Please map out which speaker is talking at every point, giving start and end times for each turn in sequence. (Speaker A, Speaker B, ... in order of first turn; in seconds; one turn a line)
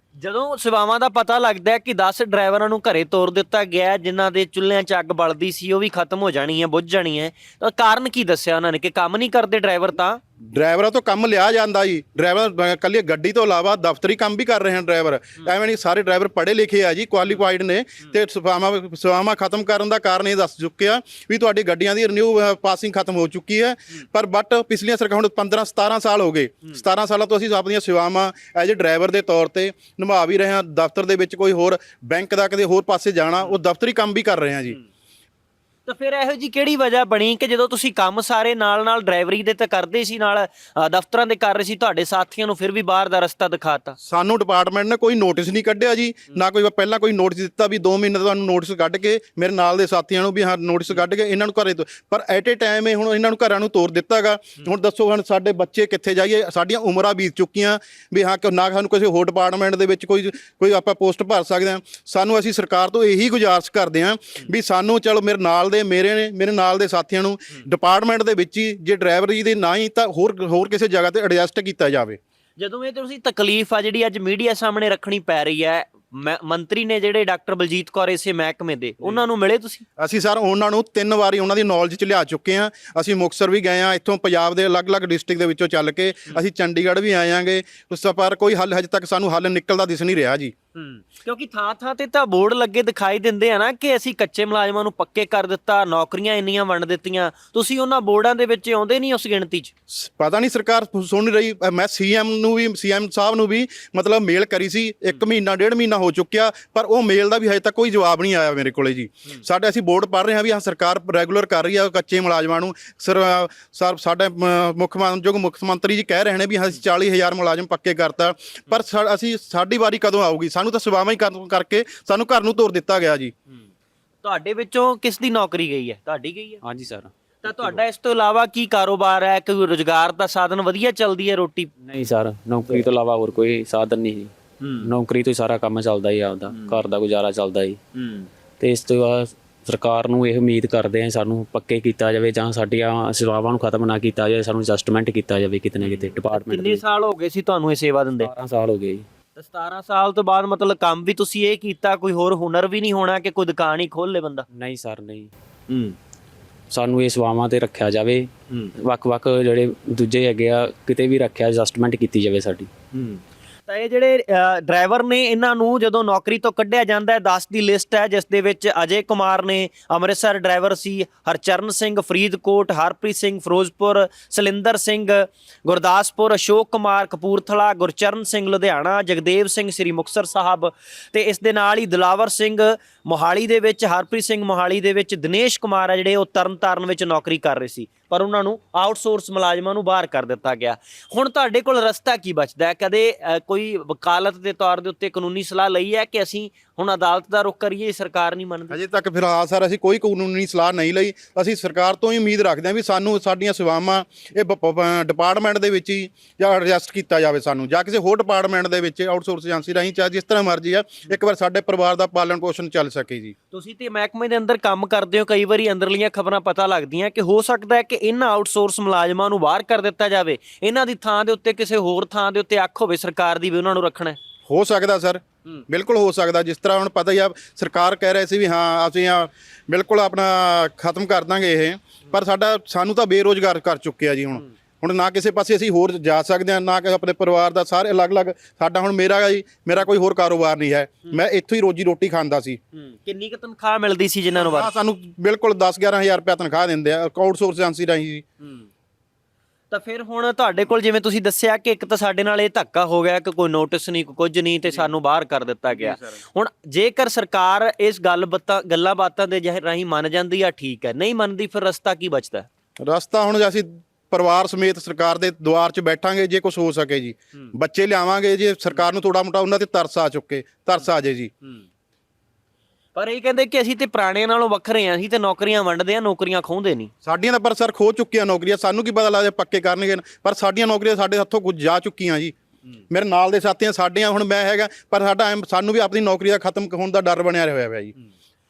Speaker A: 0.2-10.2
Speaker B: 10.4-34.8
Speaker A: 35.9-44.0
Speaker B: 44.0-72.2
Speaker A: 72.6-79.8
Speaker B: 80.0-90.5
Speaker A: 90.7-99.7
Speaker B: 99.9-123.3
Speaker A: 124.2-126.6
Speaker C: 126.6-127.8
Speaker A: 127.4-131.7
Speaker C: 131.8-137.8
Speaker A: 134.6-134.9
Speaker A: 136.5-136.8
Speaker A: 137.9-138.3
Speaker C: 138.6-146.8
Speaker A: 145.8-148.3
Speaker C: 148.2-149.1
Speaker A: 149.3-154.4
Speaker C: 154.5-155.3
Speaker A: 155.7-155.9
Speaker C: 156.7-158.3
Speaker C: 158.8-162.7
Speaker A: 162.9-198.8
Speaker B: 198.7-213.3
Speaker A: 213.5-224.2
Speaker B: 224.5-242.6
Speaker A: 242.7-244.7
Speaker B: 244.3-248.3
Speaker A: 249.7-262.5
Speaker B: 262.8-271.3
Speaker A: 272.9-276.9
Speaker B: 277.0-282.3
Speaker B: 282.9-287.9